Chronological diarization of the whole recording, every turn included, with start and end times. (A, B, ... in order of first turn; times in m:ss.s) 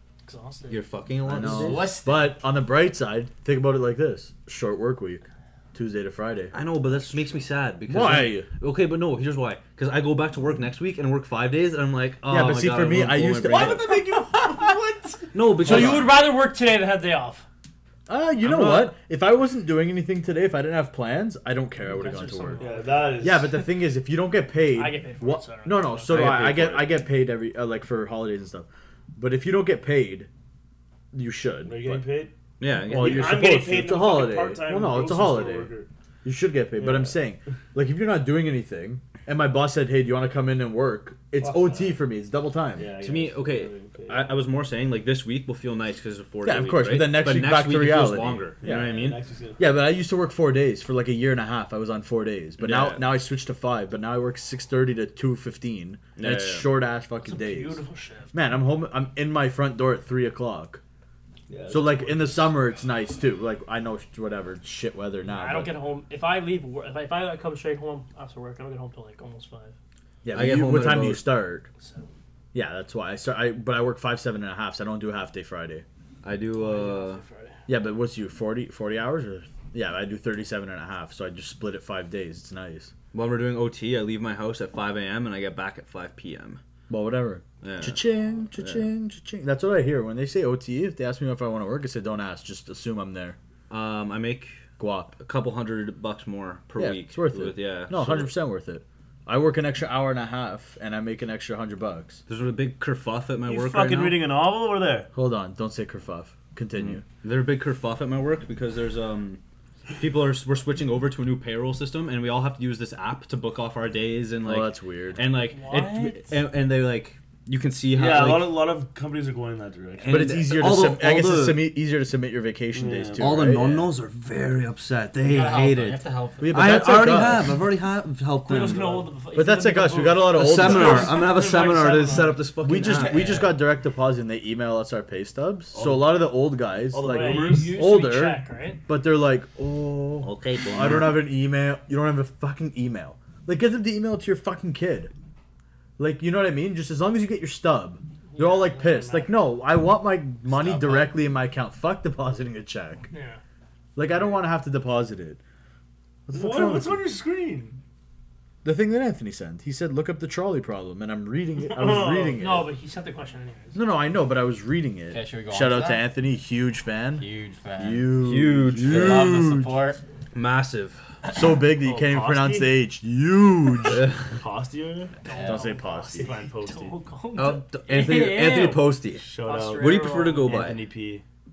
0:00.2-0:00.9 A
0:00.7-0:01.9 B
0:01.2-0:06.6 C
0:01.4-0:02.4 D
0:06.5-0:14.0 B
0:07.9-0:08.5 C
0:12.2-0:13.8 C
0:13.4-0:15.3 E
0:15.3-0:16.2 B
0:15.6-0:17.4 A
0:15.6-0:16.1 C
0:18.1-0:22.6 C
0:18.4-0:18.9 B
0:21.9-0:23.4 A
0:22.6-0:23.5 E
0:23.2-0:30.3 C
0:24.7-0:26.4 A
0:26.1-0:26.9 B
0:31.1-0:32.0 C
0:31.6-0:32.3 E
0:32.6-0:33.4 B
0:32.9-0:35.7 C
0:32.9-0:35.9 E
0:36.2-0:42.9 C
0:36.7-0:37.2 E
0:41.4-0:42.0 E
0:42.8-0:44.4 E
0:43.0-0:49.2 B
0:46.4-0:49.0 C
0:48.6-0:49.6 E
0:49.6-0:57.8 C
0:52.6-0:53.0 B
0:56.2-0:56.7 B
0:57.2-0:58.3 A
0:58.3-1:00.8 C
1:01.5-1:02.4 E
1:01.7-1:05.7 C
1:05.2-1:09.7 A
1:10.2-1:11.7 C
1:10.3-1:11.3 B
1:11.8-1:12.1 A
1:12.5-1:15.8 C
1:16.2-1:17.2 B
1:16.5-1:17.6 A
1:17.7-1:22.9 C
1:23.1-1:26.6 B
1:26.9-1:33.4 C
1:27.6-1:28.0 B
1:28.6-1:28.8 B
1:33.7-1:34.7 B
1:34.8-1:35.1 C
1:35.2-1:38.3 B
1:36.8-1:42.2 C
1:42.3-1:44.2 B
1:43.5-1:45.1 E
1:45.1-1:47.0 C
1:46.8-1:49.4 B
1:50.0-1:58.6 B
1:54.4-1:55.2 C
1:55.5-1:56.4 A
1:57.9-2:00.3 E
2:00.0-2:01.7 B
2:00.1-2:03.9 C
2:02.7-2:03.2 E
2:03.2-2:06.0 B
2:05.3-2:06.8 D
2:06.4-2:07.7 C
2:06.5-2:09.0 B
2:08.4-2:12.5 A
2:08.7-2:09.0 E
2:09.3-2:11.3 C
2:10.2-2:13.5 B
2:12.6-2:25.1 C
2:12.8-2:13.5 D
2:15.7-2:16.3 E
2:16.9-2:17.8 E
2:17.0-2:18.8 A
2:20.2-2:21.3 B
2:26.0-2:33.1 C
2:28.3-2:29.4 A
2:30.5-2:31.2 D
2:33.1-2:33.4 A
2:34.0-2:35.4 C
2:36.3-2:37.0 C
2:36.3-2:37.8 E
2:38.6-2:42.7 C
2:41.7-2:42.4 E
2:42.3-2:43.8 A
2:43.7-2:47.2 C
2:45.1-2:46.1 D
2:47.2-2:48.1 D
2:47.8-2:49.8 C
2:48.2-2:49.3 B
2:48.8-2:50.0 D
2:50.3-2:51.0 B
2:51.3-2:54.1 C
2:51.8-2:52.7 E
2:53.9-2:54.2 B
2:54.4-2:55.1 E
2:55.2-3:00.7 A
2:55.3-2:55.6 D
2:55.4-2:56.3 C
2:56.1-2:57.0 E
2:57.4-3:00.8 B
2:59.2-3:01.2 E